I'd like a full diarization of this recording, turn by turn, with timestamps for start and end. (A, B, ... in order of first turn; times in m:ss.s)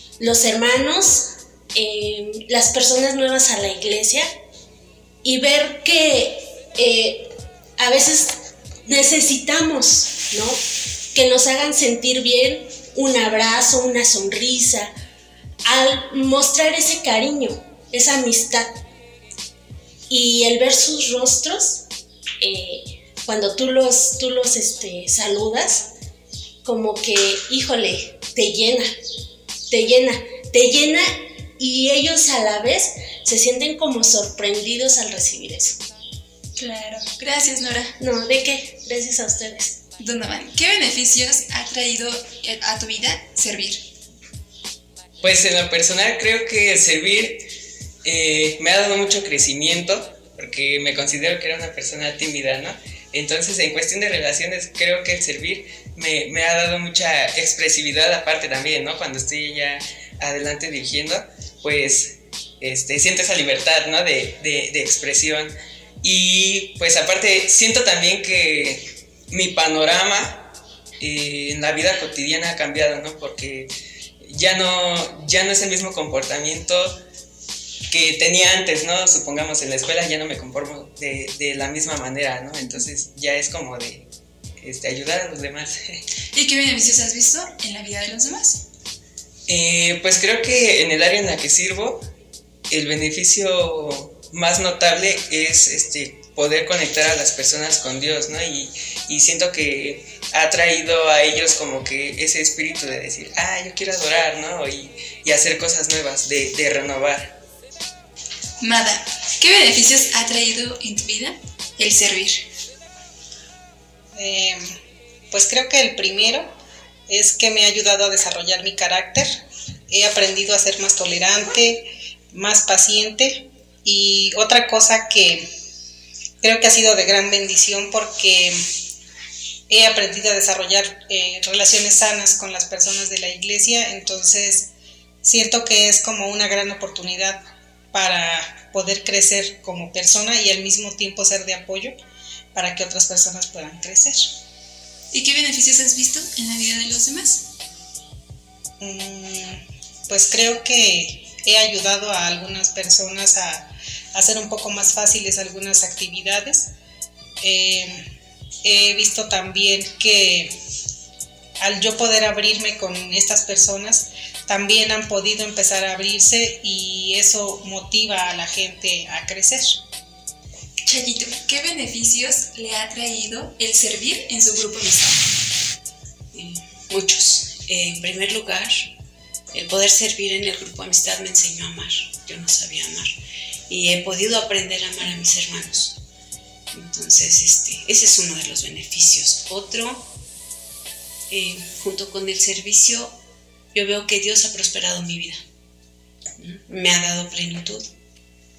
0:00.2-0:04.3 A
0:05.2-0:10.6 A
0:11.1-0:14.9 A
0:15.6-0:18.8 A
0:20.1-0:21.9 A
0:22.4-0:25.9 A
0:26.6-0:28.9 A
0:29.7-0:35.8 A
0:36.6-0:37.9 B
0:38.0-0:39.8 A
0:40.0-0:43.8 B
0:45.2-0:47.4 C
0:48.0-1:13.7 C
1:14.2-1:17.0 C
1:17.9-1:24.1 C
1:24.6-1:26.0 C
1:26.3-1:28.6 B
1:29.5-1:32.0 C
1:32.7-1:47.4 C
1:48.6-1:52.4 B
1:54.1-1:54.8 D
1:55.3-1:56.6 D
1:57.1-2:05.5 D
2:06.4-2:08.7 D
2:09.7-2:14.7 D
2:15.2-2:22.0 D
2:22.5-2:24.3 D
2:25.1-2:27.5 B
2:28.8-2:36.7 D
2:37.4-2:38.0 D
2:38.6-2:40.6 D
2:41.6-2:49.8 D
2:50.8-2:55.3 B
2:56.3-2:58.9 E
2:59.5-3:03.1 E
3:03.7-3:06.0 E
3:06.7-3:10.1 E
3:11.3-3:13.2 E
3:13.7-3:15.4 E
3:16.4-3:17.9 E